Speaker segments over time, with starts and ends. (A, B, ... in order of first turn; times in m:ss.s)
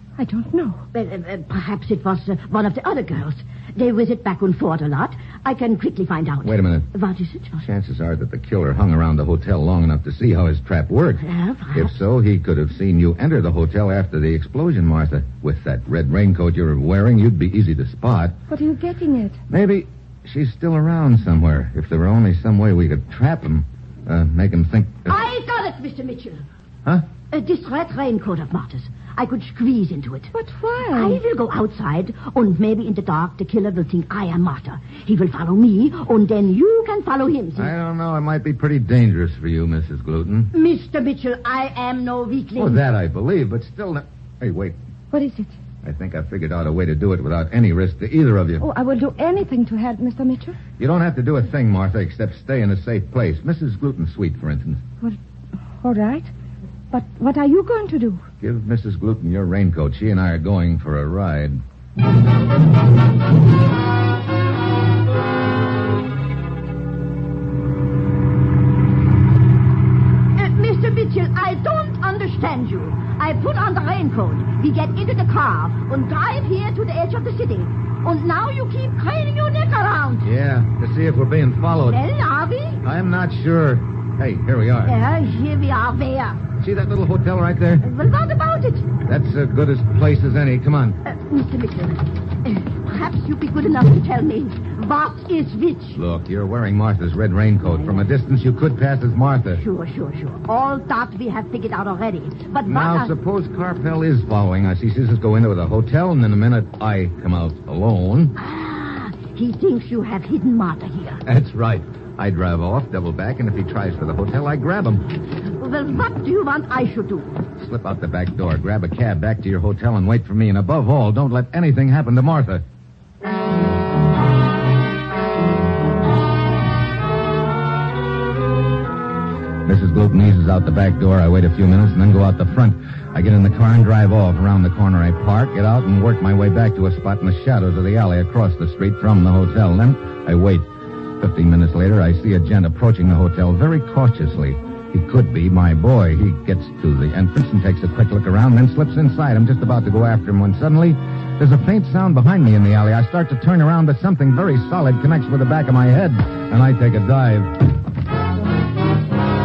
0:00.2-0:00.8 A
0:00.9-0:07.6 B
0:06.4-0:06.9 C
0:07.6-0:18.4 C
0:11.2-0:11.9 B
0:18.5-0:19.4 A
0:19.5-0:25.2 C
0:25.1-0:26.4 B
0:27.3-0:30.3 B
0:30.3-0:31.2 A
0:30.9-0:37.7 B
0:37.6-0:40.5 C
0:40.5-0:42.8 B
0:42.6-0:44.8 C
0:45.1-0:45.6 A
0:45.8-0:48.6 C
0:48.6-0:50.6 A
0:50.8-0:54.8 C
0:55.8-0:56.3 A
0:56.9-0:58.2 A
0:58.4-1:01.6 C
1:10.4-1:20.3 B
1:20.2-1:22.0 C
1:21.9-1:22.8 B
1:22.8-1:25.0 C
1:24.8-1:26.4 B
1:26.6-1:27.9 C
1:27.8-1:29.0 B
1:29.1-1:31.0 C
1:31.1-1:36.0 B
1:36.0-1:39.6 C
1:37.7-1:38.1 B
1:39.6-1:43.1 B
1:42.7-1:48.4 C
1:48.4-1:51.2 B
1:51.3-1:55.1 C
1:55.6-1:57.4 B
1:57.6-2:02.6 C
2:09.6-2:20.7 C
2:21.2-2:37.5 C